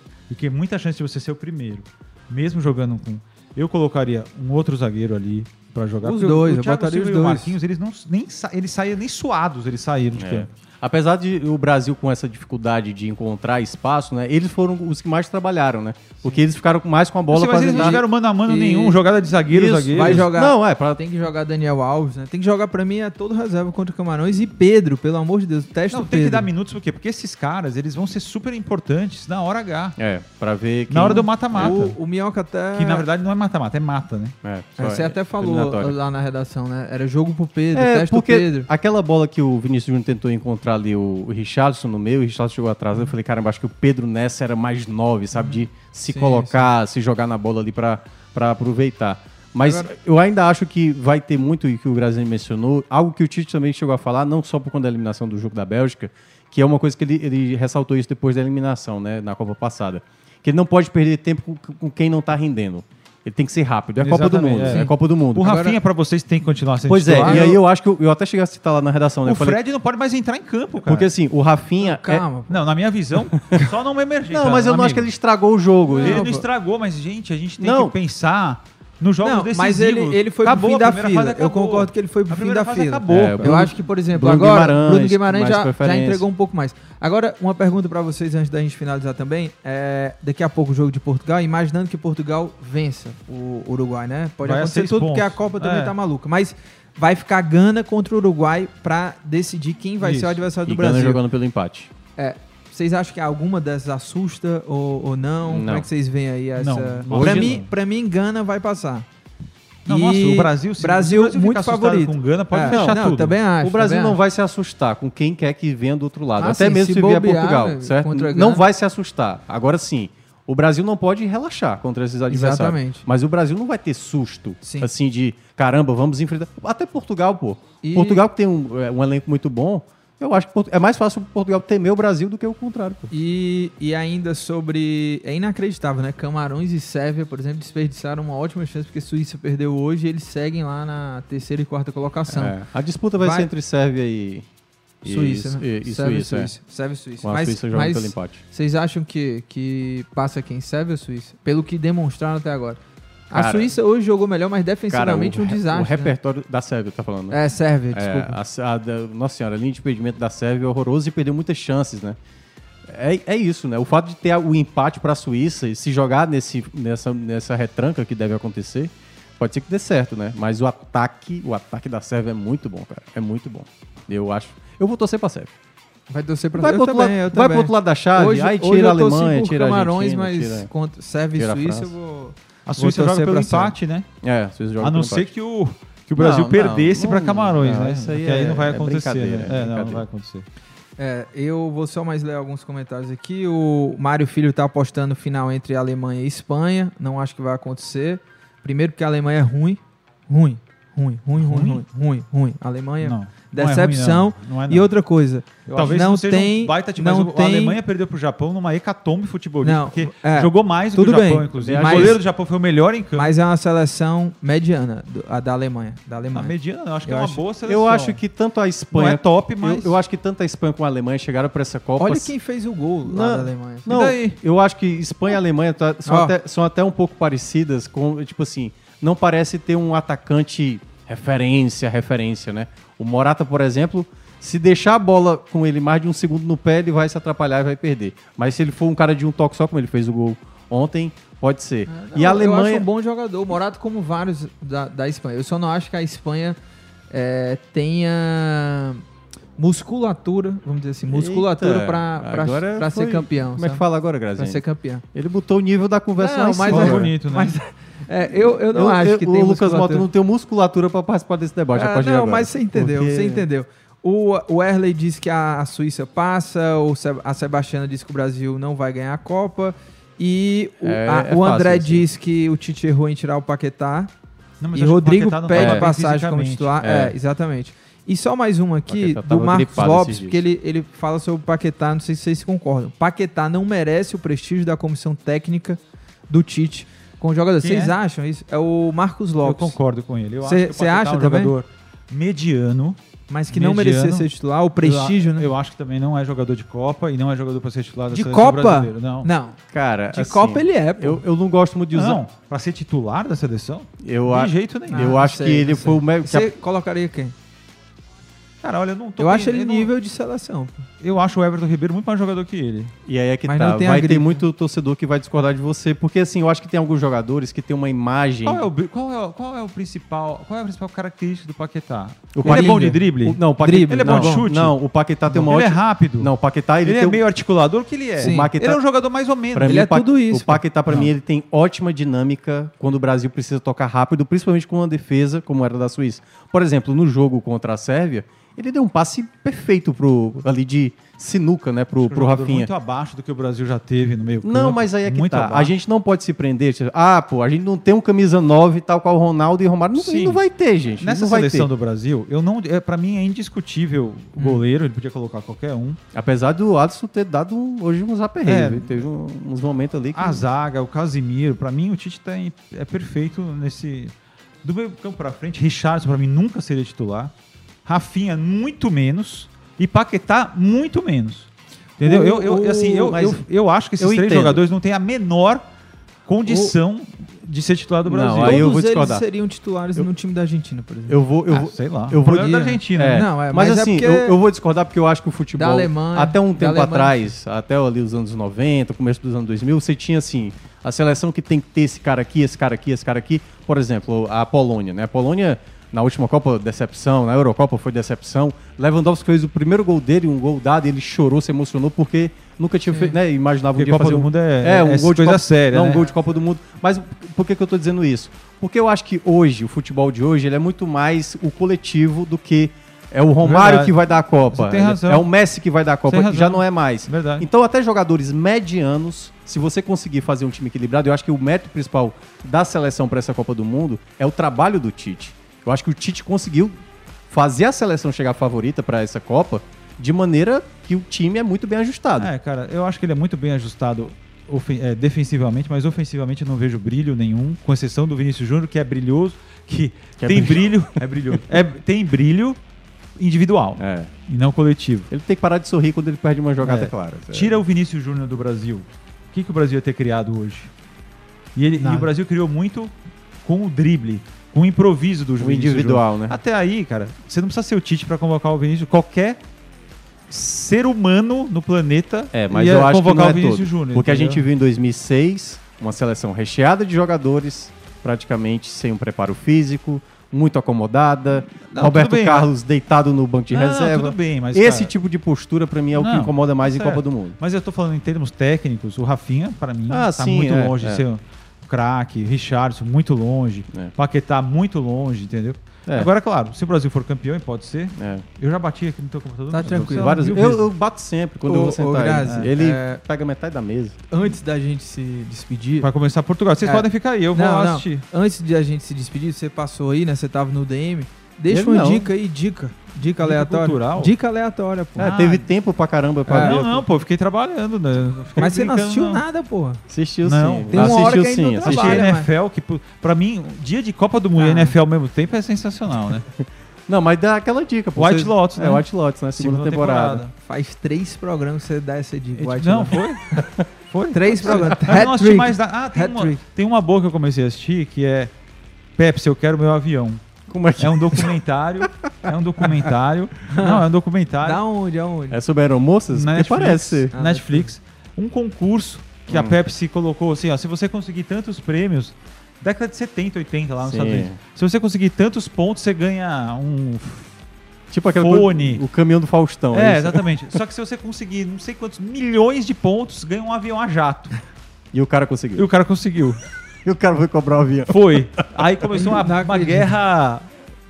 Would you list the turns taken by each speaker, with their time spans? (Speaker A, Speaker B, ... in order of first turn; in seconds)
Speaker A: 0.3-10.5, 17.3-20.3, 25.9-30.0, 30.9-32.0, 32.7-34.4, 64.0-67.6, 69.2-71.1, 72.5-75.1, 76.0-83.6, 94.4-95.9, 100.0-100.4, 106.6-107.7, 109.8-113.4, 182.7-184.1, 184.8-190.4, 201.4-201.8, 203.0-204.9, 205.7-213.3, 216.3-218.2, 218.9-220.0, 223.8-224.4, 256.6-257.6, 274.6-276.8, 287.6-287.9, 289.4-299.3, 301.9-305.2, 308.6-309.9, 311.0-312.9, 318.4-329.9, 342.0-345.7, 350.0-350.4, 351.0-356.0, 358.4-359.0, 360.1-367.3, 367.8-375.6, 376.3-378.7, 381.5-383.3, 403.7-406.0, 413.4-414.0, 414.5-415.3, 416.1-417.5, 432.1-442.6, 443.1-445.1, 446.6-450.7, 451.5-459.4, 460.3-464.5, 471.6-472.5, 473.5-474.9, 475.9-490.7, 492.2-492.5, 495.8-498.0, 503.2-504.1, 505.0-505.4, 506.4-509.2, 510.2-516.2, 517.9-520.3, 522.3-523.2, 523.9-528.3, 529.0-530.2, 530.8-534.6, 536.1-547.3, 548.1-548.8, 549.7-554.3, 555.5-556.4, 557.9-560.5
Speaker B: 6.0-7.6, 17.7-19.0, 19.9-26.5, 31.5-33.1, 34.8-38.7, 45.3-46.7, 49.6-49.9, 64.6-65.8, 67.2-67.5, 71.8-72.5, 75.9-76.4, 79.2-101.2, 102.2-109.0, 109.9-114.2, 116.4-118.6, 122.3-123.0, 124.6-124.9, 127.8-128.2, 133.1-142.5, 143.2-143.5, 145.0-152.8, 153.3-156.1, 157.3-158.4, 176.1-183.7, 191.0-207.8, 209.6-212.2, 213.1-217.4, 222.0-223.9, 226.0-226.3, 241.9-246.6, 247.1-249.0, 249.6-253.8, 254.3-255.0, 256.2-260.1, 261.7-274.1, 274.7-289.8, 290.4-291.5, 293.3-295.5, 298.1-299.6, 300.1-301.2, 304.9-307.3, 309.2-310.9, 313.4-314.4, 322.4-323.0, 323.6-324.5, 328.2-328.5, 329.6-330.6, 354.4-354.6, 376.4-376.7, 378.3-381.2, 382.2-384.4, 385.6-387.3, 402.9-403.2, 451.8-452.1, 489.5-490.5, 491.5-493.0, 494.1-495.9, 496.6-505.4, 506.3-506.6, 508.4-509.8, 510.7-512.3, 514.4-514.8, 520.3-523.0, 524.1-526.4, 533.5-533.9, 534.4-535.4, 537.1-537.7, 558.9-559.9
Speaker C: 10.2-18.0, 19.5-21.0, 30.0-31.8, 34.4-36.0, 37.7-65.5, 66.9-69.6, 70.8-72.2, 73.3-73.6, 74.3-76.3, 77.6-77.9, 83.1-86.2, 100.6-101.9, 105.5-105.9, 107.1-107.6, 112.7-113.0, 113.6-133.1, 142.3-144.4, 145.0-146.5, 147.2-148.4, 153.3-153.7, 154.9-157.4, 157.9-162.2, 162.8-175.5, 176.6-180.7, 181.4-181.9, 184.2-185.3, 186.2-190.0, 211.6-212.2, 217.6-222.3, 223.0-242.9, 251.1-254.6, 255.1-257.1, 258.7-263.4, 270.8-272.0, 275.5-275.9, 276.8-277.1, 278.9-280.4, 299.7-302.2, 304.0-306.5, 313.1-318.6, 322.3-327.2, 328.2-328.8, 329.5-342.7, 344.4-351.7, 356.1-360.4, 372.0-373.4, 374.0-374.6, 378.0-379.2, 381.1-426.8, 427.3-432.3, 440.2-440.7, 443.8-444.1, 445.1-447.6, 455.4-456.4, 462.3-477.4, 479.9-481.0, 487.9-488.2, 489.7-494.0, 501.5-502.1, 505.0-506.8, 509.9-512.0, 516.4-520.2, 523.4-523.6, 530.5-531.4, 535.3-537.1, 539.3-539.5, 543.8-544.4, 547.9-550.2, 554.9-555.7, 556.8-558.3